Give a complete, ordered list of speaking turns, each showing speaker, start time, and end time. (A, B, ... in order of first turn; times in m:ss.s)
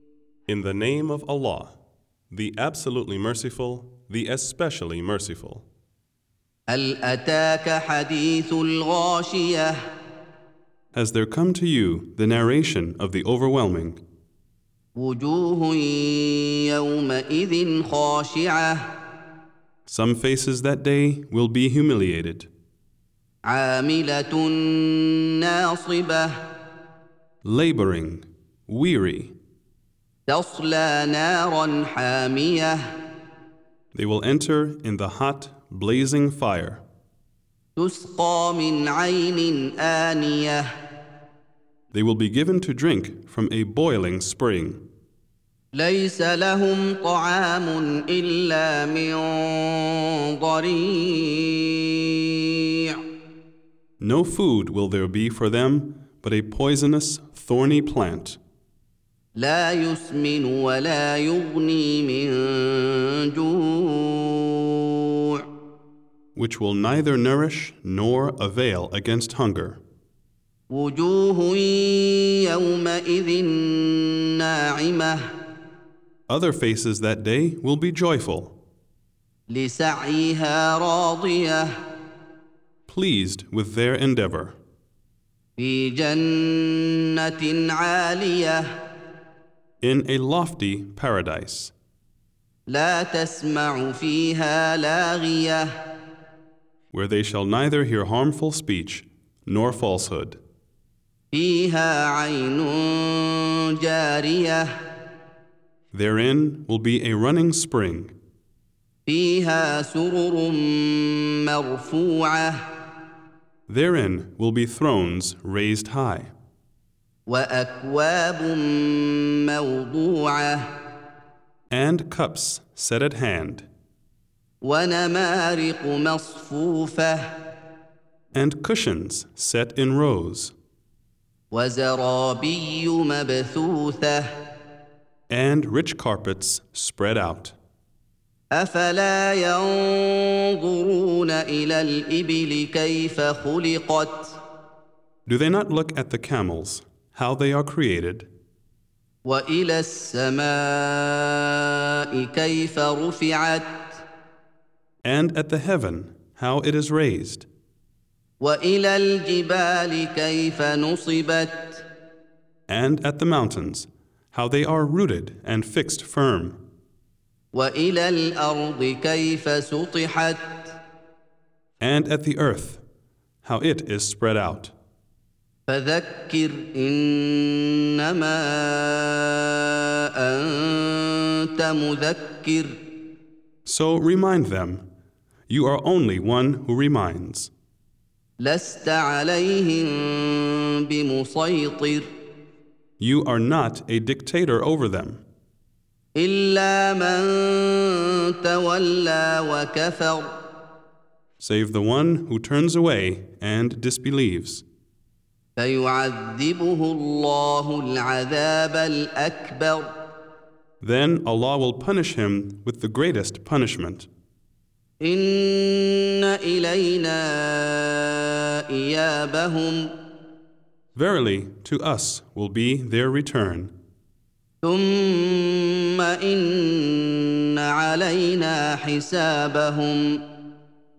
0:00.5-0:01.8 A
0:02.3-0:05.7 A
0:06.7-0:09.8 B
0:10.9-0:14.0 A
0:15.0-0:18.9 B
0:19.9-0:22.5 A
0:23.4-0:26.4 B
0:27.4-0:29.3 A
0:30.3-0:32.8 B
0:33.9-0:36.8 A
0:37.8-0:40.7 B
0:41.9-0:44.8 A
0:45.7-0:52.1 B
0:54.0-0:58.4 A
0:59.4-1:04.8 B
1:06.4-1:09.8 A
1:10.7-1:15.2 B
1:16.3-1:18.6 A
1:19.5-1:21.7 B
1:22.9-1:24.6 A
1:25.6-1:28.7 B
1:29.8-1:31.7 A
1:32.7-1:35.7 B
1:36.9-1:40.4 A
1:41.3-1:44.7 B
1:45.9-1:48.1 A
1:49.0-1:52.6 B
1:53.7-1:56.3 A
1:57.3-2:00.7 B
2:01.7-2:03.7 A
2:04.6-2:07.4 B
2:08.3-2:10.5 A
2:11.5-2:14.3 B
2:15.3-2:17.5 A
2:18.5-2:24.4 B
2:25.2-2:28.3 A
2:29.2-2:34.0 B
2:35.0-2:37.5 A
2:38.4-2:41.8 B
2:42.7-2:46.6 A
2:47.5-2:50.8 B
2:51.8-2:52.8 A
2:53.4-2:54.7 A
2:55.7-3:02.8 B
3:03.6-3:04.8 A
3:05.5-3:07.5 A
3:08.4-3:12.1 B
3:13.0-3:15.2 A
3:16.2-3:20.4 B
3:21.4-3:24.6 A
3:25.6-3:30.0 B
3:30.8-3:34.1 A
3:35.0-3:39.9 B
3:40.9-3:43.7 A
3:44.6-3:50.2 B